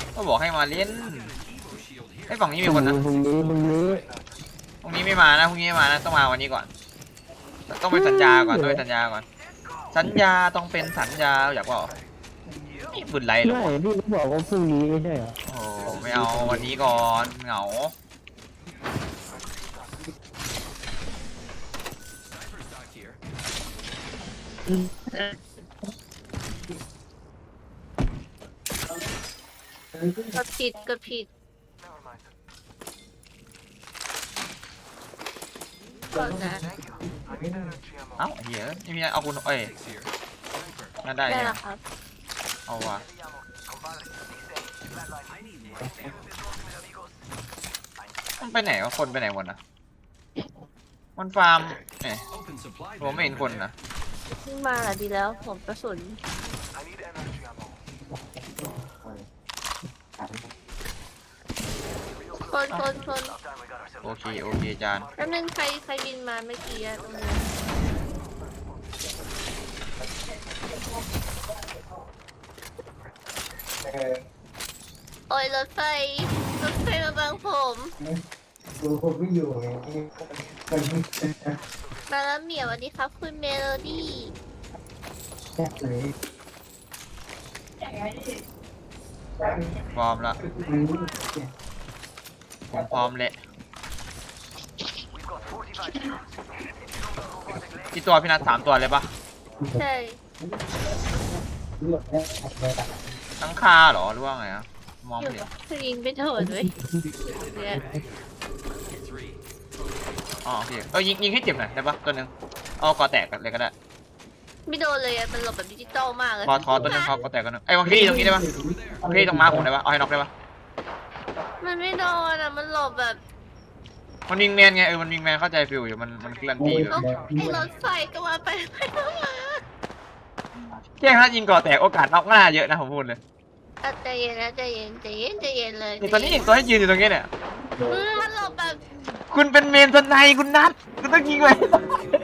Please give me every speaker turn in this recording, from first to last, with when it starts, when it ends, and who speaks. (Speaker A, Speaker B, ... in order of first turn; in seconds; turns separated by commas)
Speaker A: 0.1-1.4, Speaker A: 2.3-3.0, Speaker B: 2.6-4.1, Speaker A: 4.8-6.7, Speaker A: 7.7-9.3, Speaker B: 7.9-8.8, Speaker A: 9.9-11.9, Speaker A: 12.9-13.8, Speaker B: 13.4-15.4, Speaker A: 15.4-17.9, Speaker C: 16.1-16.6, Speaker C: 30.0-30.3, Speaker D: 30.4-31.3, Speaker D: 36.1-36.6, Speaker C: 36.2-37.8, Speaker A: 38.2-39.8, Speaker A: 41.0-41.6, Speaker D: 41.2-41.8, Speaker A: 42.7-43.0, Speaker C: 45.8-46.1, Speaker A: 48.4-49.6, Speaker A: 51.2-52.3, Speaker A: 53.0-53.7, Speaker D: 54.4-56.2, Speaker C: 58.8-59.2, Speaker C: 60.2-60.5, Speaker D: 62.4-63.4, Speaker A: 64.0-65.1, Speaker D: 65.2-67.5, Speaker D: 75.3-77.9, Speaker C: 78.8-81.3, Speaker D: 82.1-84.3, Speaker C: 85.6-86.1, Speaker A: 89.9-90.4, Speaker C: 90.5-91.5, Speaker A: 92.7-93.4, Speaker A: 97.9-99.1, Speaker D: 99.7-100.2, Speaker C: 101.8-103.0, Speaker A: 103.4-105.5, Speaker D: 105.2-106.7, Speaker C: 106.8-107.1, Speaker D: 107.3-107.8, Speaker A: 110.4-113.7, Speaker D: 114.7-117.2, Speaker A: 116.4-118.5, Speaker C: 116.5-117.2, Speaker C: 117.9-119.6, Speaker A: 119.0-120.3, Speaker D: 121.6-123.2, Speaker A: 124.3-127.1, Speaker C: 126.6-127.6, Speaker D: 126.9-129.6, Speaker A: 130.7-133.2, Speaker D: 133.8-136.5, Speaker A: 136.0-137.3, Speaker D: 137.9-138.8, Speaker A: 139.3-142.0